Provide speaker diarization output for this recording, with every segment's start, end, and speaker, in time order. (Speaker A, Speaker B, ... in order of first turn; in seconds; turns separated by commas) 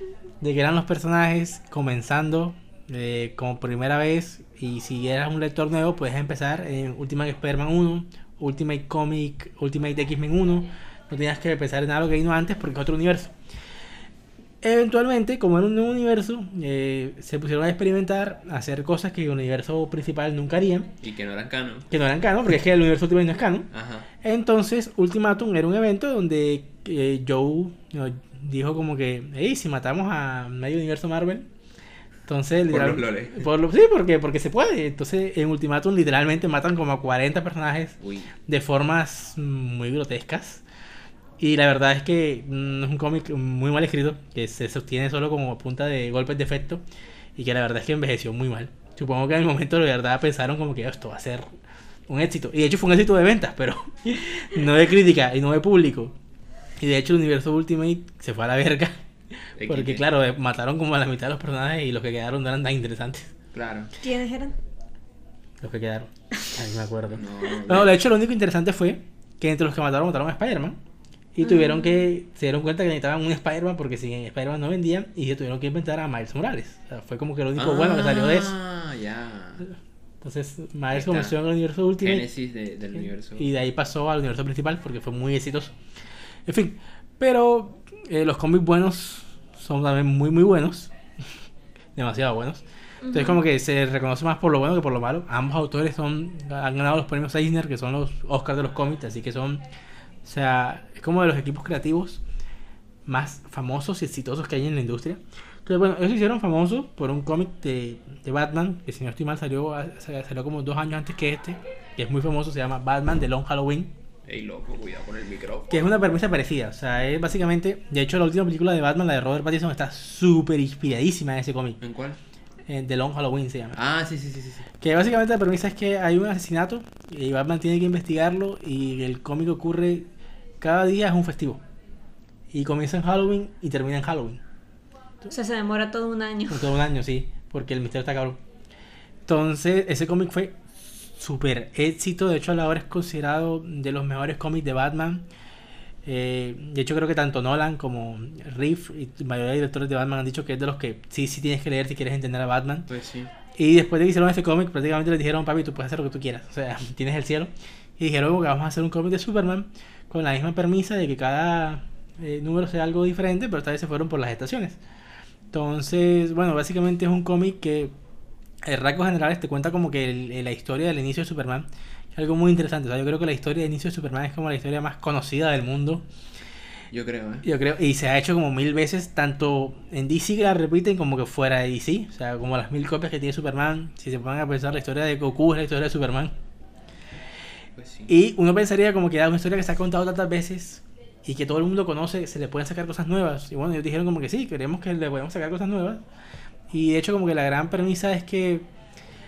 Speaker A: 0.4-13.3, Speaker A: 14.6-20.9, Speaker B: 21.0-21.9, Speaker A: 21.9-23.7, Speaker B: 23.7-24.1, Speaker A: 24.2-31.5, Speaker A: 32.3-40.6, Speaker B: 32.7-33.5, Speaker B: 38.0-38.3, Speaker A: 41.4-46.8, Speaker A: 47.4-51.5, Speaker A: 52.1-56.1, Speaker A: 56.8-59.0, Speaker B: 59.6-60.0, Speaker A: 59.6-63.3, Speaker B: 63.5-63.9, Speaker C: 64.0-64.6, Speaker A: 65.6-70.8, Speaker B: 67.1-67.9, Speaker A: 71.3-78.5, Speaker C: 71.4-72.0, Speaker B: 77.5-79.7, Speaker A: 80.2-82.3, Speaker B: 80.9-81.3, Speaker B: 82.0-83.5, Speaker A: 83.4-85.8, Speaker A: 86.5-90.9, Speaker A: 91.9-99.6, Speaker C: 93.0-93.4, Speaker A: 100.2-102.2, Speaker A: 103.0-113.9, Speaker B: 114.3-115.9, Speaker A: 115.7-121.8, Speaker B: 121.8-122.2, Speaker A: 122.7-123.8, Speaker B: 123.7-124.7, Speaker A: 124.8-130.1, Speaker A: 130.6-131.6, Speaker A: 132.5-134.4, Speaker C: 135.3-136.7, Speaker A: 136.5-138.4, Speaker A: 139.2-145.2, Speaker A: 146.0-152.9, Speaker B: 152.9-153.3, Speaker A: 153.5-164.8, Speaker A: 165.5-167.9, Speaker A: 168.6-176.0, Speaker B: 176.9-177.4, Speaker A: 177.4-186.3, Speaker B: 187.8-188.1, Speaker A: 188.1-196.0, Speaker A: 196.7-198.7